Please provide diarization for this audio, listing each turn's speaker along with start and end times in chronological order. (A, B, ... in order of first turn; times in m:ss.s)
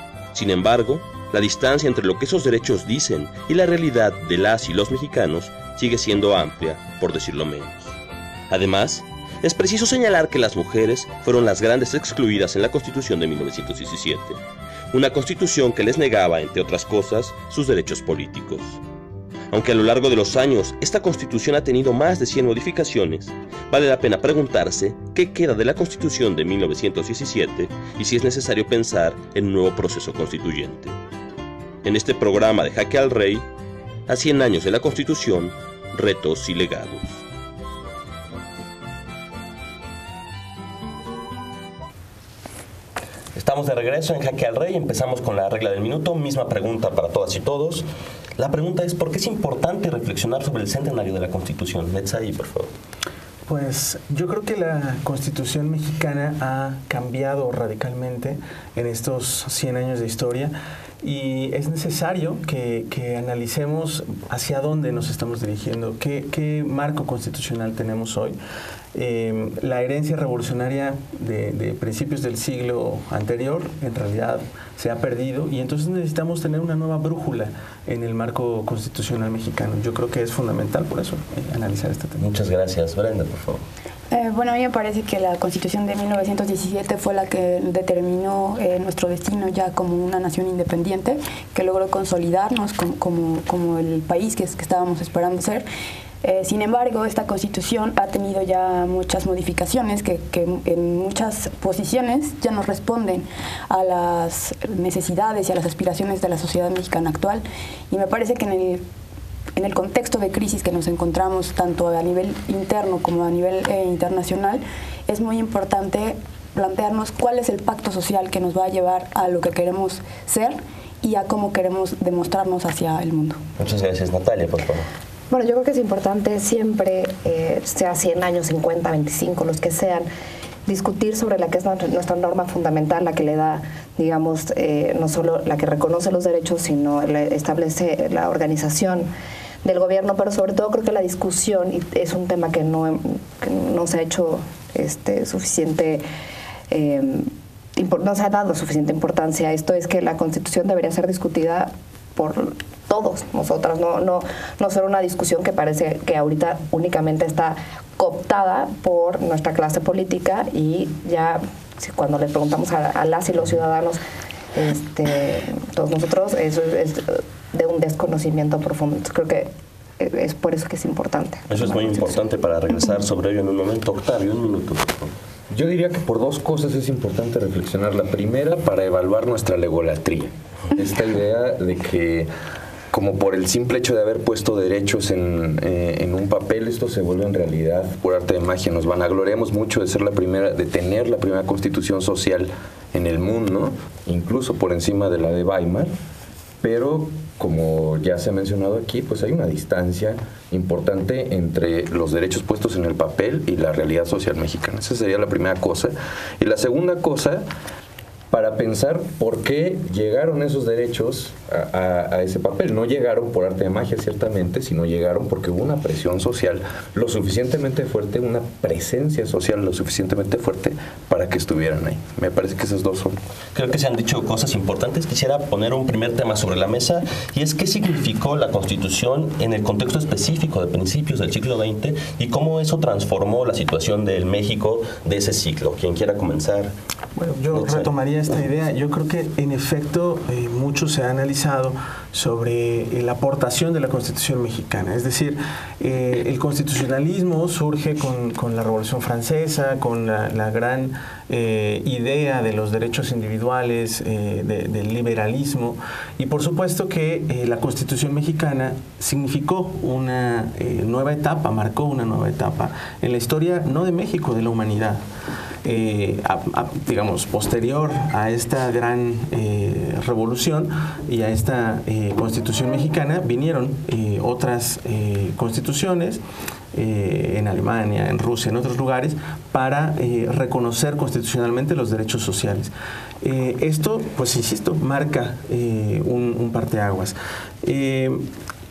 0:00.3-0:08.0 A
0:08.5-0:14.4 A
0:14.9-0:18.8 A
0:19.5-0:31.0 A
0:31.8-0:33.4 A
0:34.1-0:37.1 A
0:43.3-0:47.8 A
0:48.4-0:52.7 A
0:53.5-1:08.4 B
1:08.9-1:22.3 B
1:22.2-1:23.6 A
1:24.1-1:35.6 C
1:36.2-1:48.8 C
1:49.6-2:03.4 C
2:03.6-2:04.9 A
2:05.3-2:10.1 D
2:10.6-2:19.1 D
2:19.6-2:26.0 D
2:26.7-2:44.0 D
2:44.5-2:52.2 D
2:51.5-2:55.1 A
2:55.5-3:02.3 E
3:02.9-3:15.9 E
3:16.6-3:27.4 E
3:28.3-3:43.2 E
3:43.5-3:56.7 A
3:57.2-4:25.0 B
3:57.5-3:57.9 A
4:25.6-4:36.2 B
4:36.7-4:48.2 B